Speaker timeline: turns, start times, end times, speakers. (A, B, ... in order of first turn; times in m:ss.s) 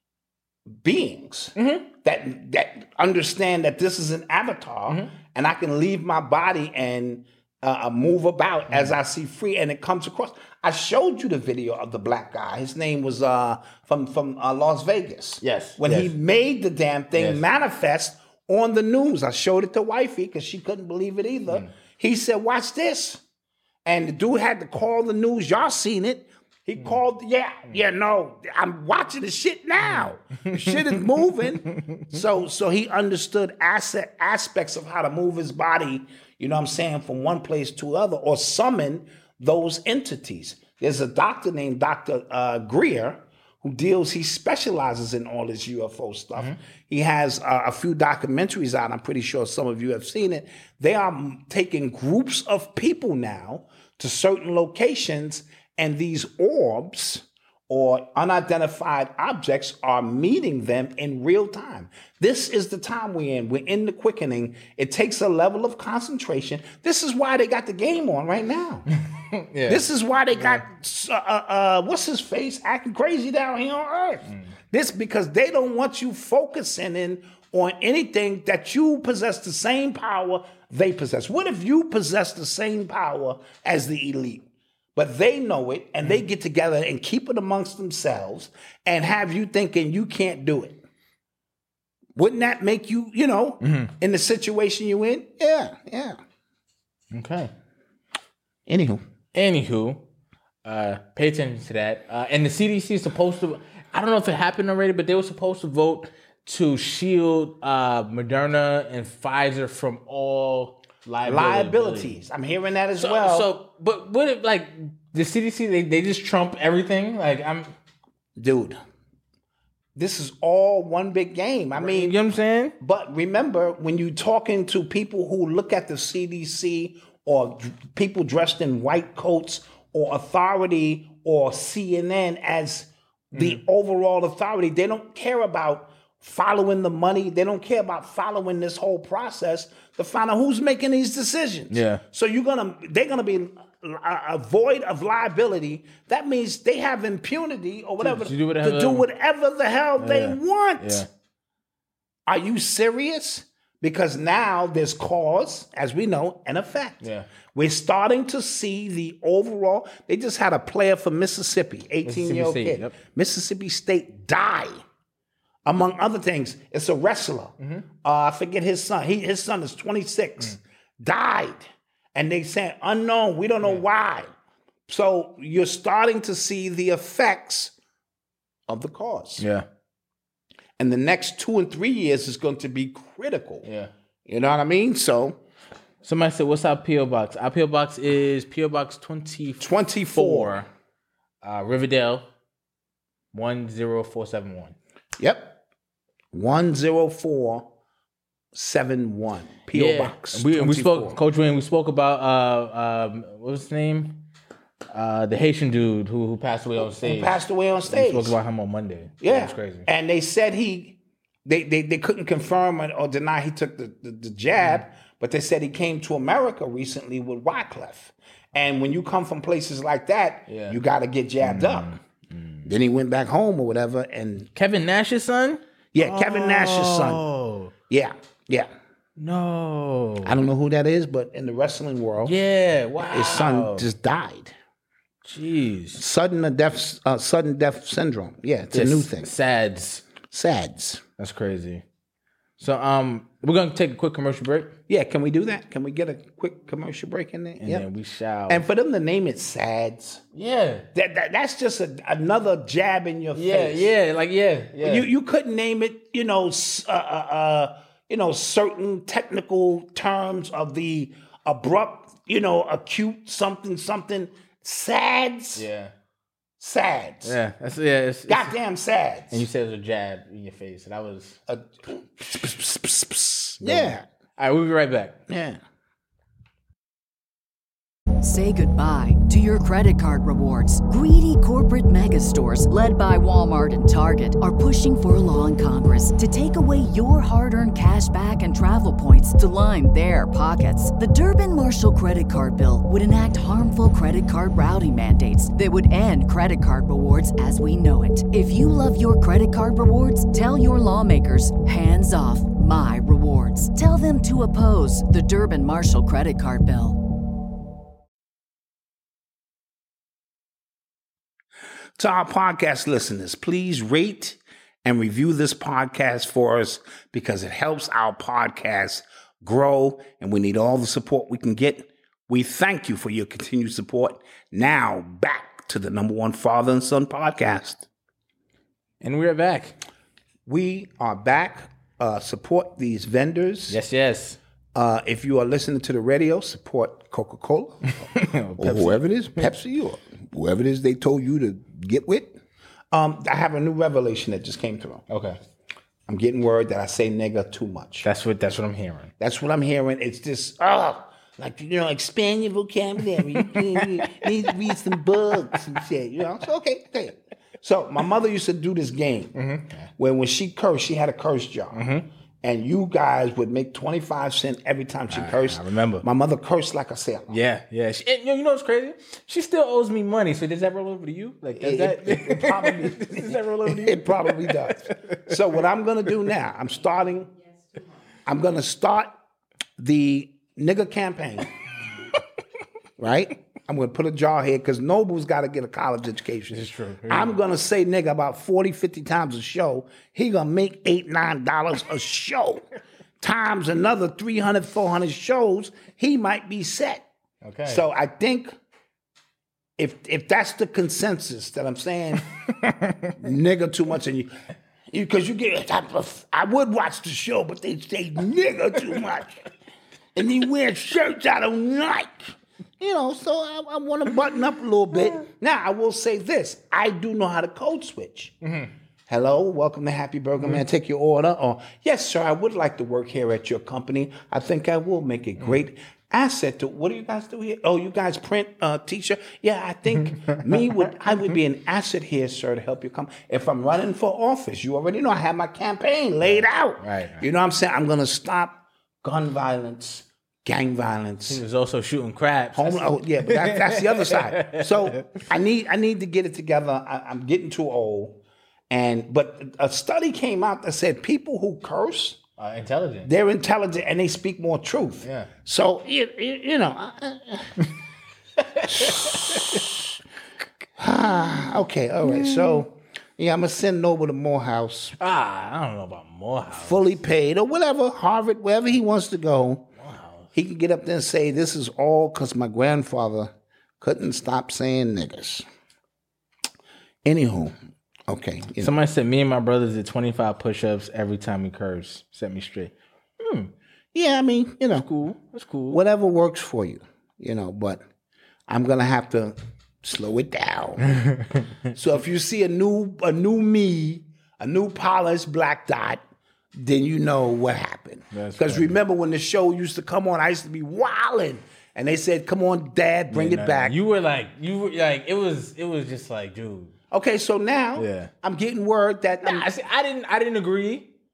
0:00.8-0:23.2 A
0:01.6-0:01.9 B
0:15.4-0:16.1 B
0:17.1-0:17.4 B
0:23.8-1:08.9 A
0:29.8-0:31.1 B
0:31.6-0:32.1 B
1:09.0-1:10.6 B
1:09.7-1:30.8 A
1:32.1-1:36.2 A
1:33.6-1:33.9 B
1:37.1-1:37.5 B
1:38.7-1:39.0 A
1:39.3-1:40.0 B
1:40.6-1:52.2 B
1:51.2-1:53.5 A
1:53.0-1:57.7 B
1:58.4-1:58.8 A
2:00.0-2:02.2 A
2:01.8-2:02.7 B
2:02.8-2:31.0 A
2:13.3-2:13.6 B
2:21.7-2:22.0 B
2:28.0-2:29.1 B
2:30.0-2:31.1 B
2:32.3-2:44.8 A
2:37.0-2:37.3 B
2:42.0-2:43.0 B
2:45.6-2:54.3 A
2:47.6-2:47.8 B
2:54.9-2:57.7 A
2:58.7-2:59.4 A
2:59.4-2:59.6 B
3:00.8-3:03.7 A
3:03.6-3:03.9 B
3:04.2-3:05.4 A
3:06.0-3:10.7 B
3:09.6-3:10.5 A
3:11.4-3:12.3 B
3:13.3-3:14.8 B
3:15.2-3:15.6 A
3:16.3-3:17.7 A
3:18.5-3:21.2 A
3:19.7-3:24.2 B
3:24.9-3:29.9 B
3:26.8-3:28.4 A
3:29.2-3:41.9 A
3:40.5-3:40.8 B
3:41.4-3:42.6 B
3:42.6-3:44.5 A
3:44.5-3:47.7 B
3:45.9-3:47.2 A
3:47.9-3:48.7 A
3:49.2-3:50.3 B
3:50.2-3:52.3 A
3:52.2-3:53.9 B
3:53.1-3:54.5 A
3:55.2-3:56.0 B
3:56.0-3:59.3 A
3:58.7-4:00.0 B
4:00.2-4:01.0 A
4:01.2-4:01.8 B
4:02.6-4:04.8 B
4:04.9-4:07.9 A
4:07.6-4:08.6 B
4:08.5-4:10.2 A
4:10.3-4:10.8 B
4:10.9-4:13.9 A
4:13.3-4:15.1 B
4:14.8-4:25.7 A
4:25.5-4:25.9 B
4:26.6-4:27.4 A
4:27.2-4:28.5 B
4:28.3-4:29.4 A
4:29.3-4:31.4 B
4:31.5-4:34.0 A
4:33.6-4:35.2 B
4:35.3-4:35.6 A
4:38.2-5:07.0 C
5:12.0-5:27.8 A
5:29.0-5:29.8 B
5:30.4-5:33.8 A
5:33.7-5:34.4 B
5:34.7-5:38.1 A
5:38.0-5:39.4 B
5:38.6-5:42.4 A
5:42.9-5:45.0 A
5:45.1-5:45.4 B
5:46.1-5:48.1 A
5:48.0-5:49.1 B
5:49.2-5:59.4 A
5:53.4-5:54.2 B
5:59.3-5:59.9 B
6:00.0-6:01.9 A
6:01.7-6:02.1 B
6:02.4-6:07.4 A
6:05.1-6:06.0 B
6:07.3-6:15.3 B
6:11.6-6:17.3 A
6:18.2-6:19.1 A
6:19.8-6:21.5 A
6:23.0-6:32.6 A
6:26.5-6:27.4 B
6:33.2-6:37.0 A
6:37.4-6:37.8 B
6:37.6-6:38.6 A
6:39.8-6:42.3 A
6:42.5-6:43.1 B
6:43.2-6:44.3 A
6:44.9-6:49.5 A
6:50.1-6:58.4 A
6:58.4-6:58.7 B
6:59.1-7:21.4 A
7:16.2-7:17.2 B
7:21.3-7:25.2 B
7:22.5-7:32.2 A
7:32.4-7:33.1 B
7:33.0-7:37.6 A
7:35.0-7:35.3 B
7:38.4-7:39.6 B
7:38.7-7:39.9 A
7:40.8-7:45.0 A
7:42.0-7:42.6 B
7:45.0-7:46.8 B
7:46.5-7:49.7 A
7:49.8-7:50.3 B
7:50.3-7:55.4 A
7:57.0-7:57.5 A
7:58.1-7:58.7 A
7:58.6-8:03.5 B
8:03.9-8:04.9 A
8:04.8-8:05.8 B
8:05.7-8:07.8 A
8:08.5-8:11.0 A
8:10.9-8:11.4 B
8:11.7-8:16.0 A
8:16.5-8:23.8 A
8:18.1-8:18.7 B
8:23.1-8:26.7 B
8:26.9-8:29.5 A
8:27.8-8:28.1 B
8:29.2-8:30.9 B